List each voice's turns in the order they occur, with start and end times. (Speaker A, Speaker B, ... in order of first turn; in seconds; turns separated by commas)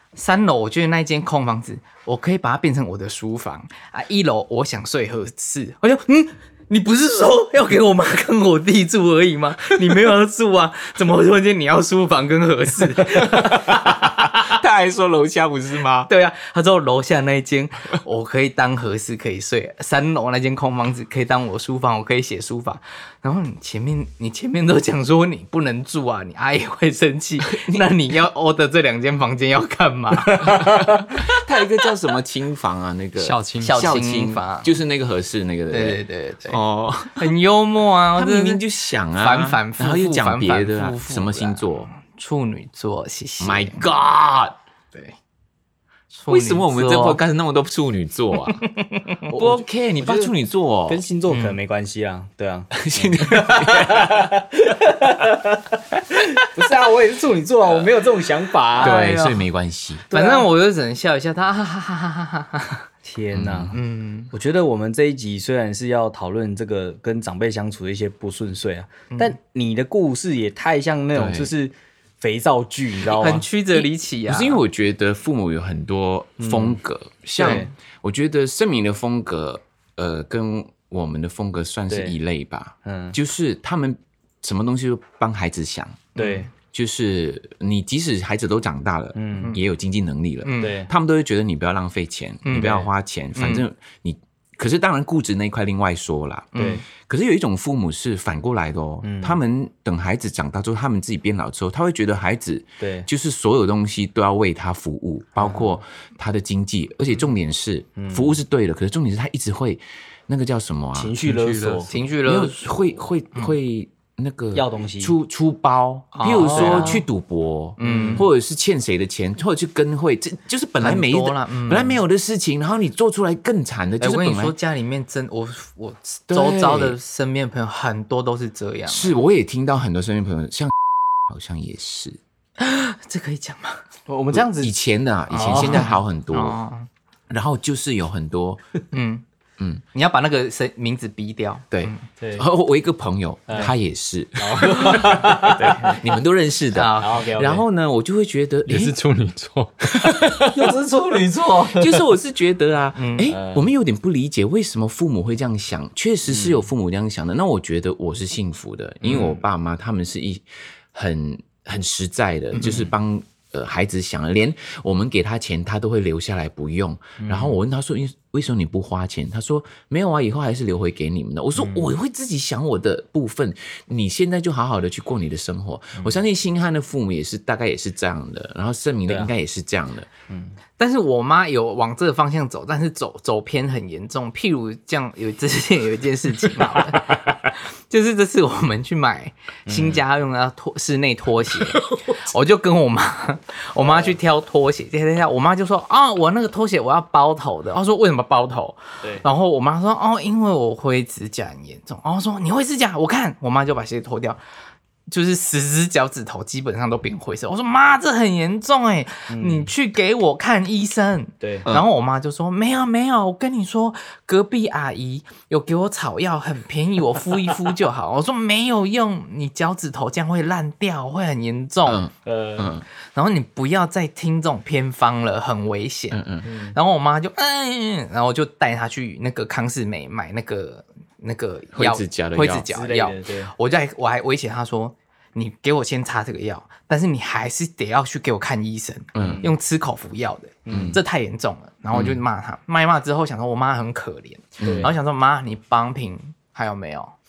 Speaker A: 0.1-14.3, Speaker B: 13.1-16.1, Speaker A: 16.1-30.8, Speaker B: 27.5-27.9, Speaker B: 30.4-37.3, Speaker C: 33.2-33.9, Speaker A: 33.6-34.7, Speaker A: 35.7-36.6, Speaker A: 37.1-43.8, Speaker B: 38.1-41.9, Speaker B: 43.4-44.5, Speaker A: 46.1-47.2, Speaker B: 46.3-48.6, Speaker A: 48.5-49.2, Speaker D: 49.3-50.3, Speaker B: 49.3-51.0, Speaker D: 50.9-59.3, Speaker A: 51.3-51.6, Speaker B: 52.8-54.4, Speaker B: 58.8-60.1, Speaker A: 58.8-59.3, Speaker D: 60.1-60.5, Speaker A: 60.1-62.9, Speaker D: 63.0-63.8, Speaker B: 63.3-63.8, Speaker A: 63.7-64.3, Speaker D: 64.3-73.4, Speaker A: 69.1-69.3, Speaker B: 71.1-71.5, Speaker A: 73.1-74.6, Speaker B: 73.8-111.2, Speaker D: 76.4-76.8, Speaker D: 77.3-77.7, Speaker A: 77.4-77.7, Speaker D: 81.9-82.1, Speaker D: 82.8-83.2, Speaker D: 86.2-86.5, Speaker A: 86.2-86.5, Speaker D: 89.1-89.6, Speaker A: 90.4-90.8, Speaker D: 90.6-90.9, Speaker A: 92.4-92.8, Speaker D: 92.5-92.9, Speaker A: 93.3-93.6, Speaker A: 96.5-96.8, Speaker D: 96.5-96.8, Speaker D: 99.0-99.4, Speaker D: 102.8-103.1, Speaker D: 105.4-105.7, Speaker D: 108.0-108.3, Speaker D: 111.0-111.9, Speaker C: 111.2-111.9, Speaker A: 111.9-113.5, Speaker B: 112.2-124.5, Speaker D: 114.5-115.2, Speaker A: 116.1-117.0, Speaker D: 116.2-117.0, Speaker A: 117.8-118.3, Speaker D: 117.8-118.3, Speaker A: 120.8-122.0, Speaker A: 124.0-129.2, Speaker B: 126.3-127.0, Speaker B: 128.9-130.7, Speaker B: 131.3-132.2, Speaker A: 132.6-133.8, Speaker D: 134.1-134.7, Speaker B: 134.3-136.6, Speaker A: 135.3-136.9, Speaker D: 135.3-135.9, Speaker B: 137.3-138.6, Speaker A: 138.9-139.2, Speaker B: 139.6-139.8, Speaker A: 139.9-142.0, Speaker B: 141.7-148.9, Speaker D: 142.2-142.4, Speaker D: 143.5-143.7, Speaker D: 144.4-146.0, Speaker A: 146.7-147.3, Speaker D: 147.0-147.6, Speaker C: 148.7-150.7, Speaker D: 150.4-152.0, Speaker B: 151.7-180.1, Speaker A: 152.9-153.3, Speaker D: 153.3-153.7, Speaker D: 156.3-156.6, Speaker D: 159.0-159.3, Speaker A: 162.5-162.9, Speaker D: 162.6-162.9, Speaker D: 167.2-167.6, Speaker D: 171.6-171.9, Speaker A: 180.8-204.4, Speaker D: 186.6-187.2, Speaker D: 189.7-190.0, Speaker D: 191.5-192.1, Speaker D: 193.8-194.1, Speaker A: 205.1-222.0, Speaker D: 209.3-209.7, Speaker D: 211.4-211.7, Speaker B: 221.9-222.8, Speaker D: 222.2-222.8, Speaker A: 223.1-247.2, Speaker B: 226.1-226.5, Speaker D: 226.4-226.8, Speaker B: 231.7-232.7, Speaker D: 232.7-233.5, Speaker B: 239.1-239.4, Speaker D: 239.2-239.5, Speaker D: 240.7-241.0, Speaker B: 240.7-241.0, Speaker B: 241.9-242.2, Speaker B: 244.6-244.9, Speaker D: 244.6-244.9